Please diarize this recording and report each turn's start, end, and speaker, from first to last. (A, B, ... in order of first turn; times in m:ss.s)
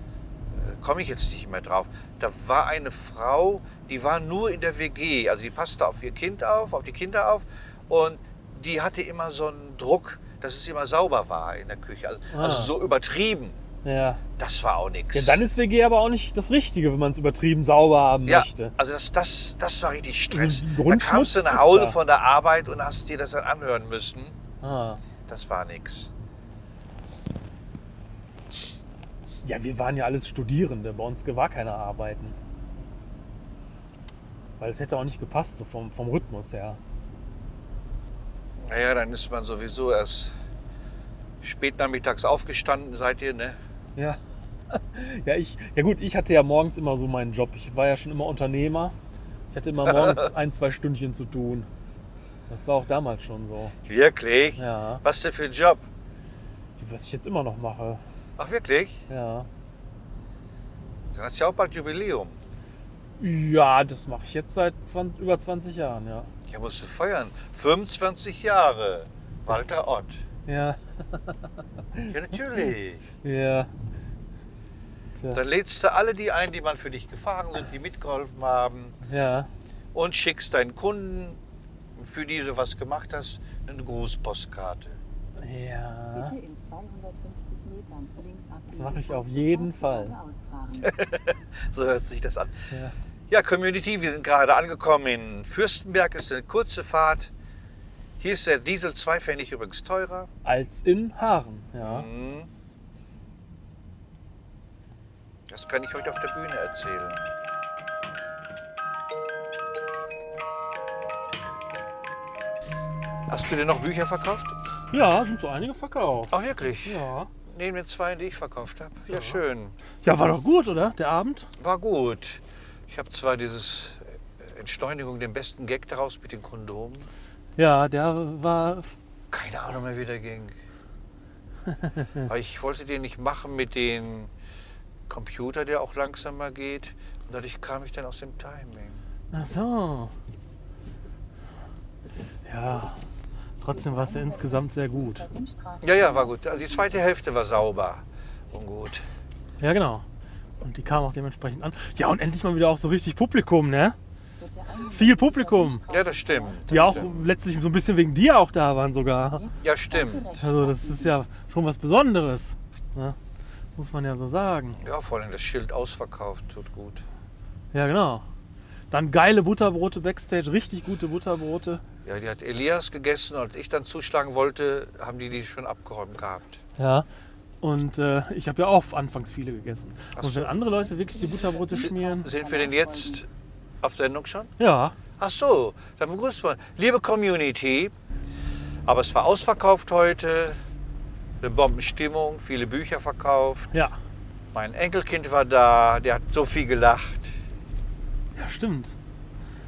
0:00.5-0:13.6 A
0:12.3-0:12.7 B
0:13.8-0:14.2 B
0:14.4-0:15.4 A
0:15.1-0:18.7 B
0:18.2-0:24.3 A
0:20.3-0:22.0 B
0:24.6-0:25.0 B
0:25.3-0:26.1 A
0:29.4-0:32.4 B
0:34.6-0:36.8 B
0:38.6-0:40.3 A
0:41.4-0:43.6 A
0:44.7-0:48.9 B
0:49.5-0:51.7 B
0:49.8-0:50.3 A
0:52.5-0:53.8 B
0:53.8-0:55.8 A
0:54.6-0:55.0 B
0:56.8-0:58.0 B
0:58.4-0:59.0 A
0:59.1-0:59.5 B
1:01.1-1:02.4 A
1:03.2-1:06.3 B
1:06.5-1:10.2 A
1:10.4-1:11.4 B
1:12.0-1:13.0 A
1:13.2-1:13.7 B
1:15.2-1:15.4 B
1:15.3-1:19.0 A
1:19.0-1:19.5 B
1:19.9-1:21.4 A
1:22.0-1:25.0 A
1:25.4-1:26.4 B
1:26.1-1:30.9 C
1:28.7-1:30.2 B
1:30.8-1:32.5 A
1:33.3-1:37.3 A
1:38.2-1:40.3 A
1:40.4-1:42.1 B
1:41.8-1:42.5 A
1:45.5-1:47.2 A
1:53.3-1:54.6 A
1:54.9-1:57.3 B
1:56.3-1:59.8 A
1:59.1-1:59.4 B
2:00.0-2:01.5 B
2:01.6-2:07.1 A
2:07.6-2:08.9 B
2:09.3-2:10.5 A
2:12.2-2:14.3 A
2:15.1-2:19.0 A
2:19.3-2:20.1 B
2:22.4-2:23.0 B
2:23.6-2:25.3 B
2:23.9-2:26.3 C
2:25.8-2:29.0 A
2:29.6-2:30.0 B
2:30.6-2:34.0 B
2:34.4-2:36.8 C
2:34.7-2:35.9 B
2:35.9-2:37.3 A
2:36.7-2:39.5 B
2:39.3-2:41.1 C
2:39.6-2:40.3 A
2:40.4-2:43.2 B
2:43.8-2:44.8 B
2:44.8-2:47.0 A
2:47.7-2:48.2 B
2:48.9-2:51.8 B
2:52.0-2:56.6 A
2:56.8-2:57.0 B
2:57.6-3:02.3 B
3:00.2-3:00.6 A
3:01.0-3:03.2 C
3:01.7-3:03.3 A
3:03.8-3:04.5 A
3:04.6-3:05.0 B
3:05.2-3:07.9 A
3:08.8-3:10.6 A
3:11.4-3:13.8 A
3:14.5-3:17.4 A
3:18.4-3:18.9 B